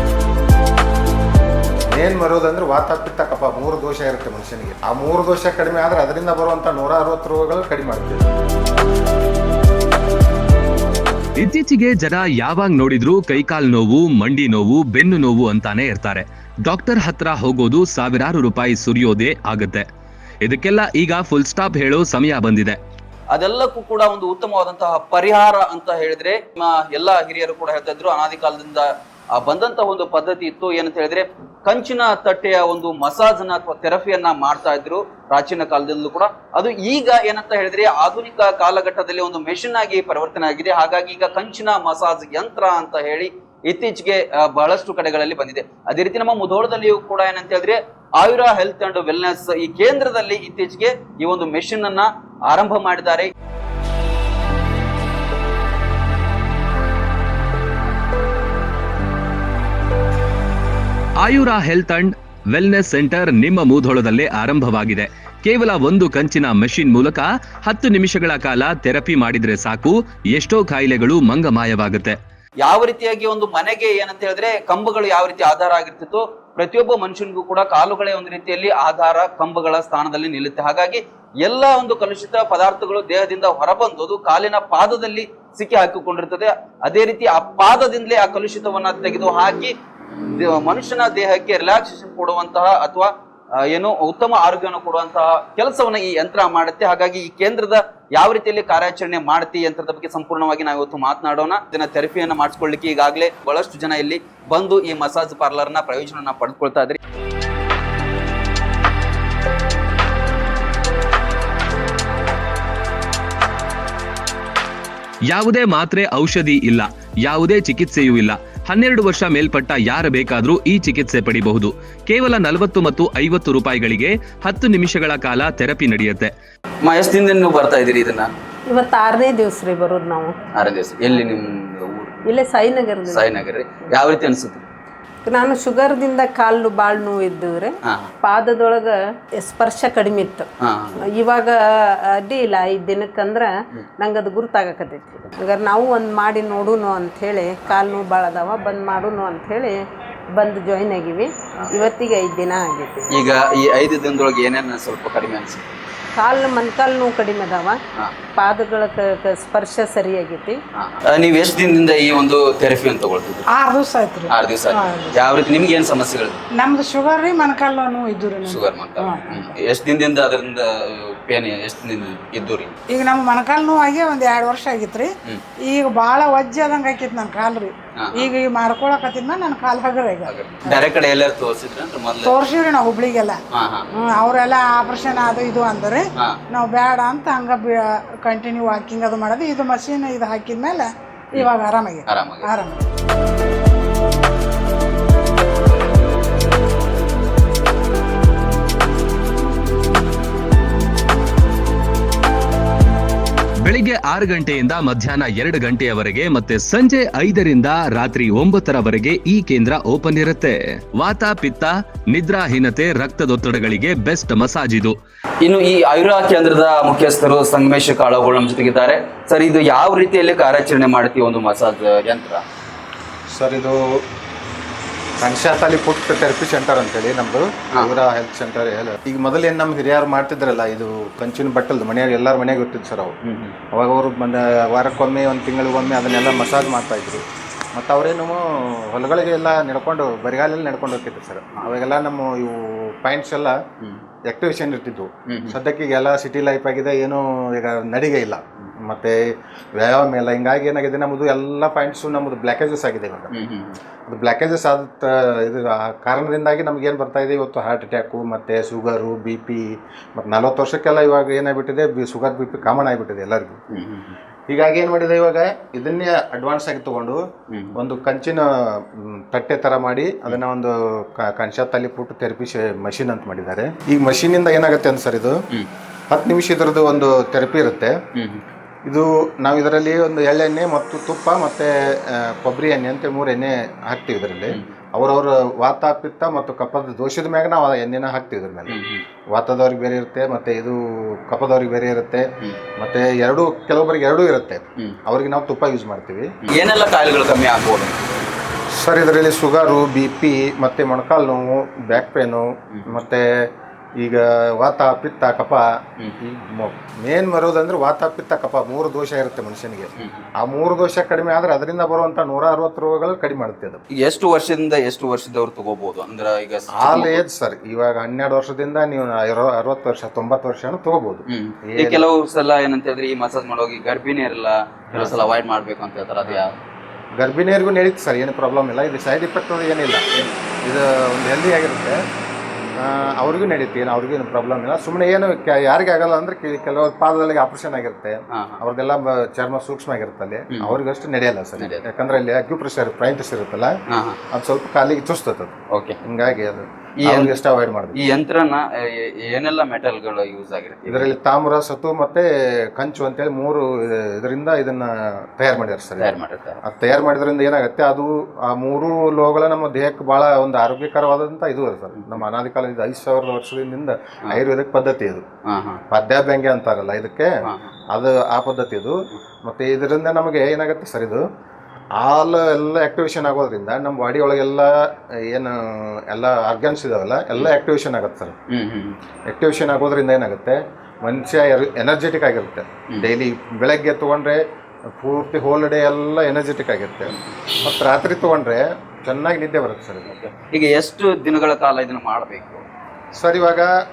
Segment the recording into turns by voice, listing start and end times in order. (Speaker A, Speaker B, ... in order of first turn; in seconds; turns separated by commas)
Speaker A: 1.9-8.3, Speaker B: 11.4-19.9, Speaker B: 20.4-22.8, Speaker C: 23.3-53.3, Speaker B: 61.2-72.2, Speaker C: 72.6-89.7, Speaker C: 90.4-93.1, Speaker C: 93.7-107.0, Speaker B: 115.3-126.3, Speaker C: 126.8-128.3, Speaker D: 128.7-130.3, Speaker C: 130.5-132.2, Speaker D: 132.3-133.3, Speaker C: 133.1-134.7, Speaker D: 135.2-140.5, Speaker C: 140.7-141.0, Speaker D: 141.1-149.8, Speaker D: 150.3-153.1, Speaker C: 153.1-155.7, Speaker D: 156.2-157.8, Speaker D: 158.4-160.6, Speaker C: 160.8-163.4, Speaker E: 163.6-163.9, Speaker C: 164.3-166.4, Speaker E: 166.6-168.2, Speaker C: 168.4-172.7, Speaker E: 172.9-175.0, Speaker E: 175.7-177.7, Speaker C: 178.0-178.4, Speaker E: 178.5-180.0, Speaker C: 180.2-182.5, Speaker E: 182.3-183.3, Speaker C: 183.6-183.9, Speaker E: 184.1-185.9, Speaker E: 186.6-187.8, Speaker E: 188.3-190.9, Speaker C: 191.4-192.7, Speaker B: 203.7-215.0, Speaker C: 215.4-222.4, Speaker A: 223.3-223.8, Speaker A: 225.2-233.2, Speaker C: 233.3-233.5, Speaker A: 233.7-237.2, Speaker A: 237.7-243.6, Speaker A: 244.3-249.2, Speaker C: 245.3-245.6, Speaker A: 249.8-253.3, Speaker C: 253.3-253.8, Speaker A: 254.1-259.6, Speaker A: 260.2-263.6, Speaker C: 263.7-264.1, Speaker A: 264.5-267.2, Speaker C: 267.5-267.8, Speaker A: 267.8-268.4, Speaker A: 269.1-275.4, Speaker A: 276.1-277.9, Speaker C: 278.2-278.4, Speaker A: 278.9-288.8, Speaker C: 288.7-289.0, Speaker A: 289.3-292.3, Speaker A: 292.8-296.3, Speaker C: 296.5-298.1, Speaker A: 298.7-303.2, Speaker A: 304.0-305.6, Speaker A: 306.2-313.8, Speaker C: 314.0-317.2, Speaker A: 316.7-322.1, Speaker C: 321.3-326.6, Speaker A: 324.9-325.3, Speaker A: 327.2-330.0, Speaker A: 330.6-332.0, Speaker A: 332.8-343.7, Speaker C: 338.4-338.6, Speaker C: 341.6-341.8, Speaker C: 343.9-344.2, Speaker A: 344.3-345.5, Speaker C: 345.7-346.0, Speaker A: 346.1-348.0, Speaker C: 347.0-347.4, Speaker C: 348.0-351.1, Speaker A: 350.9-365.2, Speaker C: 356.0-356.6, Speaker C: 362.0-362.2, Speaker C: 365.5-365.8, Speaker A: 365.9-367.3, Speaker C: 367.5-367.7, Speaker A: 367.9-371.2, Speaker A: 372.0-374.7, Speaker A: 375.3-378.4, Speaker C: 378.5-379.0, Speaker A: 379.3-384.4, Speaker A: 385.0-390.1, Speaker C: 390.1-392.7, Speaker A: 393.2-393.7